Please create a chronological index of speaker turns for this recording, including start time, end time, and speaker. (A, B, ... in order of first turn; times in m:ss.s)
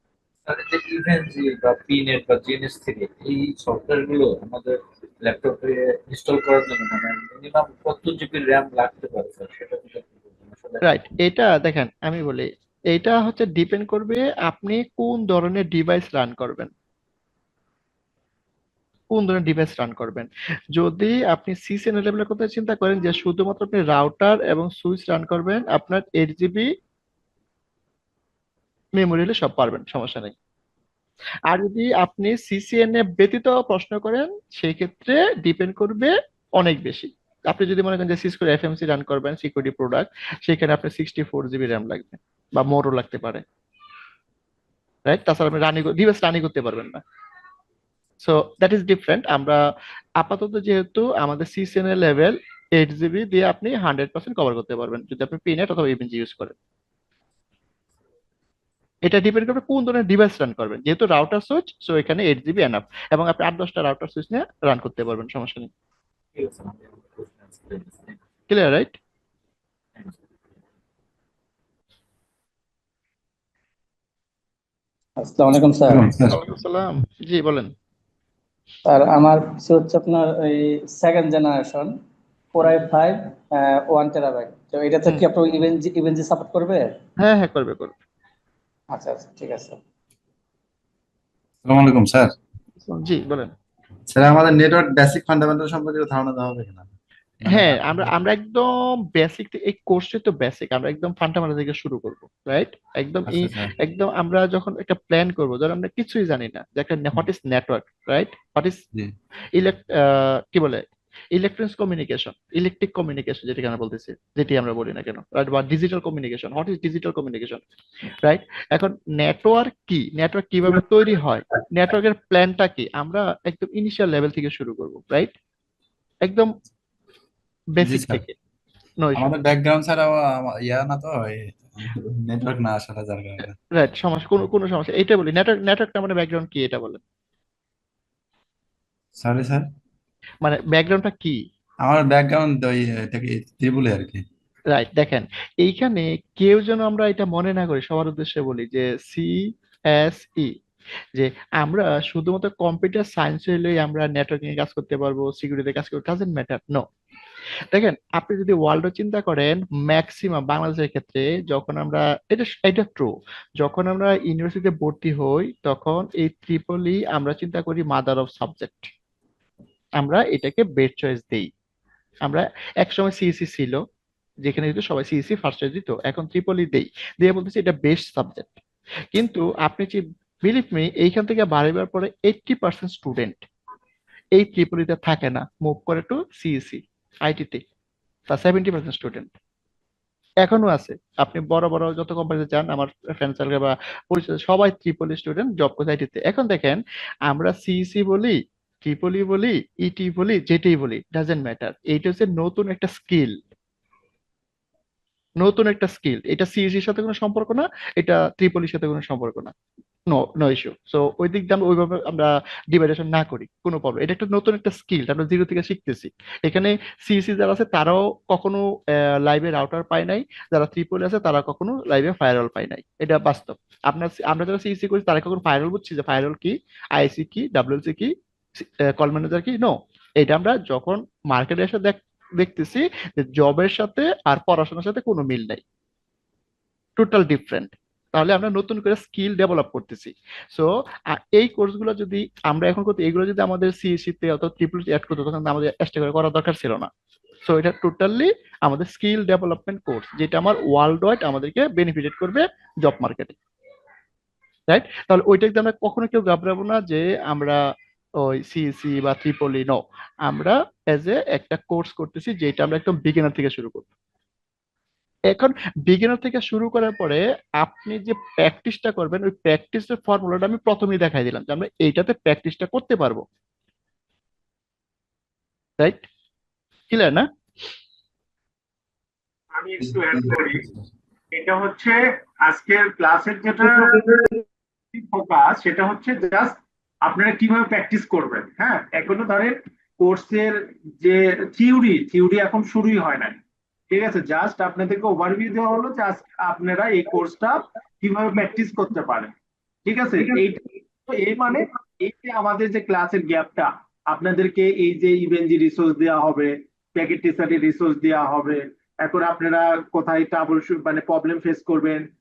0:00.4-0:10.8 A
0:10.8-0:16.7 B
0:19.1-0:26.7 B
0:28.9-0:30.3 B
0:31.5-0:43.4 B
0:45.0-0:47.0 B
0:48.2-0:49.6 B
0:50.2-0:56.5 B
0:59.0-1:05.7 B
1:06.3-1:08.2 A
1:08.5-1:09.0 B
1:10.0-1:10.2 A
1:15.2-1:16.1 C
1:15.9-1:16.4 D
1:16.1-1:17.7 B
1:18.8-1:21.9 C
1:22.5-1:26.9 C
1:27.2-1:27.9 B
1:28.9-1:29.8 C
1:31.6-1:32.3 D
1:32.8-1:33.5 B
1:34.1-1:36.9 D
1:37.4-1:38.1 D
1:37.4-1:48.8 B
1:43.3-1:43.7 D
1:49.6-1:57.6 B
1:58.2-2:05.3 B
2:06.2-2:06.5 B
2:07.7-2:08.3 B
2:07.8-2:08.2 D
2:09.0-2:09.3 B
2:09.2-2:13.6 D
2:13.7-2:17.0 B
2:19.2-2:19.7 D
2:20.4-2:21.4 B
2:21.8-2:24.2 D
2:24.7-2:29.4 B
2:29.9-2:30.5 B
2:31.1-2:36.8 B
2:37.7-2:48.9 B
2:50.0-2:51.5 B
2:52.2-2:53.8 B
2:54.4-2:58.6 B
2:59.1-3:03.4 B
3:04.3-3:07.6 B
3:08.3-3:09.3 B
3:10.4-3:23.4 B
3:25.4-3:29.5 B
3:30.1-3:55.6 B
3:57.0-4:06.9 B
4:07.4-4:13.4 B
4:14.7-4:17.6 B
4:18.2-4:23.9 B
4:25.3-4:33.2 B
4:35.8-4:36.0 B
4:36.9-4:37.3 B
4:39.5-4:40.6 E
4:39.8-4:40.8 D
4:41.3-4:44.0 E
4:44.9-4:53.4 E
4:53.9-4:59.3 E
4:59.8-5:12.1 E